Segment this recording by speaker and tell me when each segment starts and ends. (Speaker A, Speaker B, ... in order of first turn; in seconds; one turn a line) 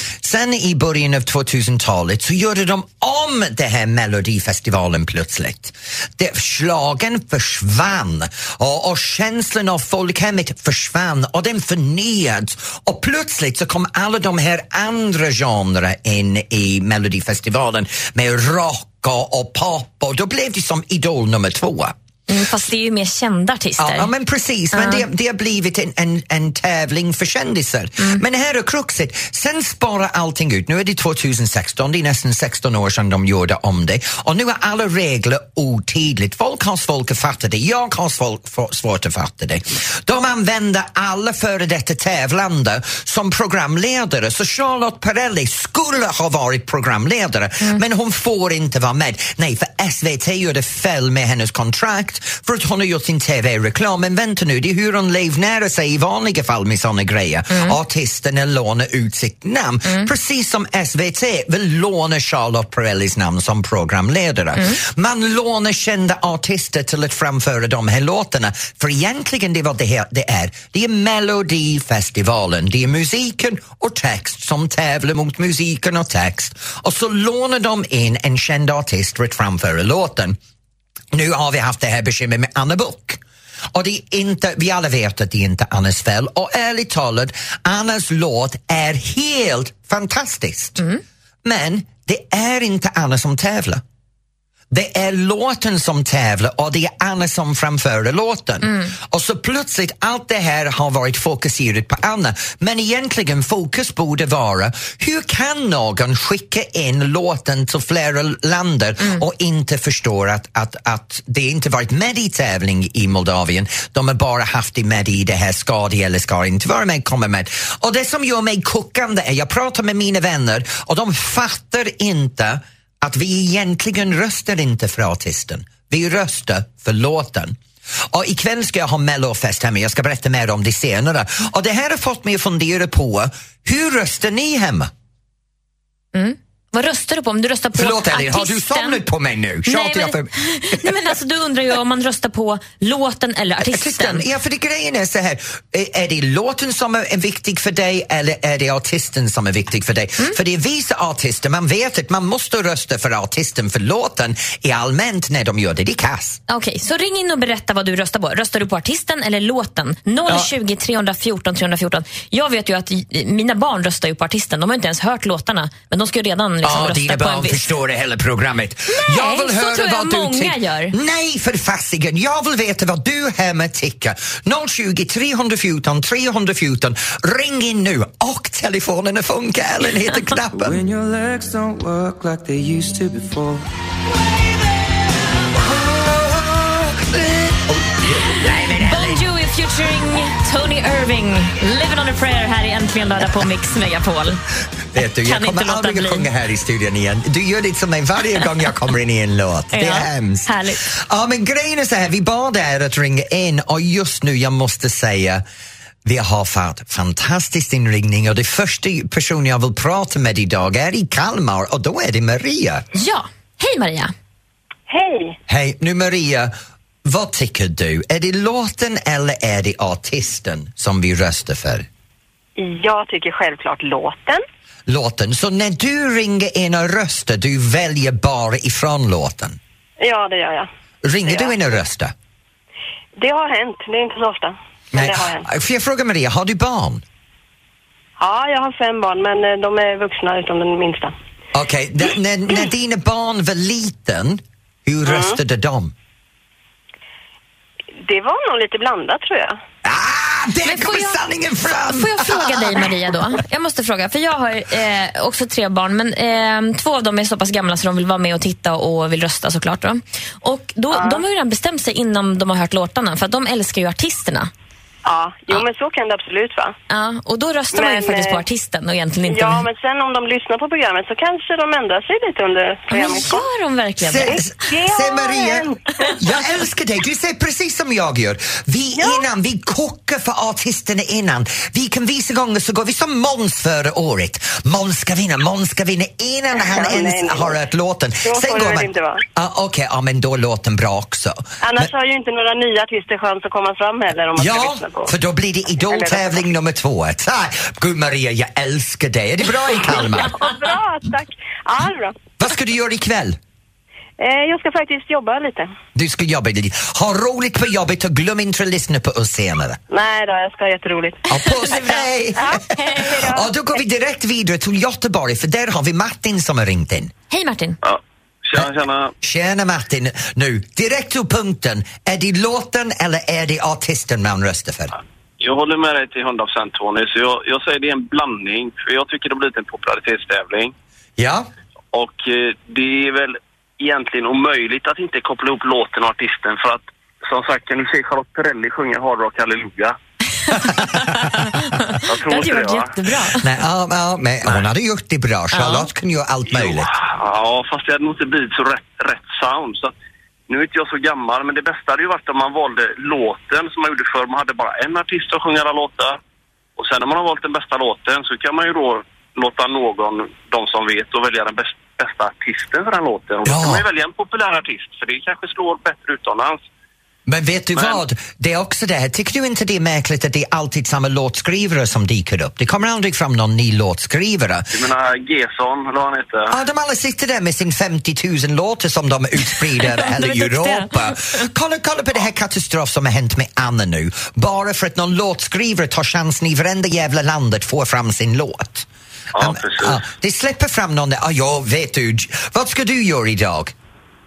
Speaker A: 0.2-21.9
Speaker B: 22.3-24.1
Speaker A: 23.8-80.4
Speaker B: 24.7-25.1
Speaker B: 57.5-57.8
Speaker A: 81.1-83.2
Speaker A: 83.7-90.8
Speaker A: 91.4-93.8
Speaker A: 94.7-127.6
Speaker A: 128.1-134.9
Speaker B: 136.1-139.0
Speaker A: 137.8-140.8
Speaker B: 139.7-144.2
Speaker A: 143.6-156.4
Speaker B: 156.5-167.7
Speaker A: 160.3-160.5
Speaker A: 166.6-180.8
Speaker B: 168.9-170.9
Speaker C: 180.5-183.6
Speaker A: 185.7-189.2
Speaker B: 188.8-194.4
Speaker A: 194.9-205.4
Speaker B: 195.2-196.3
Speaker B: 199.7-200.8
Speaker A: 206.1-212.8
Speaker B: 212.9-214.1
Speaker D: 214.9-215.4
Speaker A: 215.5-216.5
Speaker A: 217.1-221.9
Speaker D: 222.6-224.4
Speaker A: 224.9-229.6
Speaker D: 230.0-230.7
Speaker A: 231.0-232.1
Speaker D: 231.3-231.5
Speaker D: 233.2-235.5
Speaker A: 234.9-237.0
Speaker D: 238.2-241.1
Speaker A: 241.5-245.9
Speaker D: 245.1-245.4
Speaker D: 248.0-249.6
Speaker A: 249.8-252.9
Speaker B: 250.6-264.5
Speaker D: 260.9-261.2
Speaker D: 265.1-266.8
Speaker B: 266.9-269.7
Speaker D: 267.8-268.4
Speaker D: 269.3-273.5
Speaker B: 272.9-274.4
Speaker A: 274.0-291.9
Speaker D: 274.2-276.1
Speaker D: 286.6-287.6
Speaker D: 288.2-289.2
Speaker D: 291.6-295.1
Speaker A: 294.4-300.4
Speaker D: 295.9-296.4
Speaker D: 299.9-302.2
Speaker A: 302.4-303.4
Speaker D: 304.2-305.7
Speaker A: 305.9-309.8
Speaker D: 309.9-311.2
Speaker A: 311.3-317.1
Speaker B: 311.4-313.3
Speaker D: 312.5-313.5
Speaker B: 317.3-317.8
Speaker E: 317.8-319.1
Speaker A: 319.2-324.9
Speaker E: 325.4-330.7
Speaker A: 331.2-331.5
Speaker E: 331.9-340.0
Speaker B: 340.5-343.4
Speaker A: 340.5-341.4
Speaker E: 342.0-342.9
Speaker A: 343.4-346.9
Speaker B: 345.5-345.9
Speaker E: 346.5-349.9
Speaker E: 350.5-356.2
Speaker E: 356.8-366.6
Speaker A: 363.4-363.9
Speaker A: 367.3-374.7
Speaker E: 367.7-368.0
Speaker E: 374.7-376.5
Speaker A: 376.5-393.7
Speaker B: 379.4-381.5
Speaker E: 389.4-390.0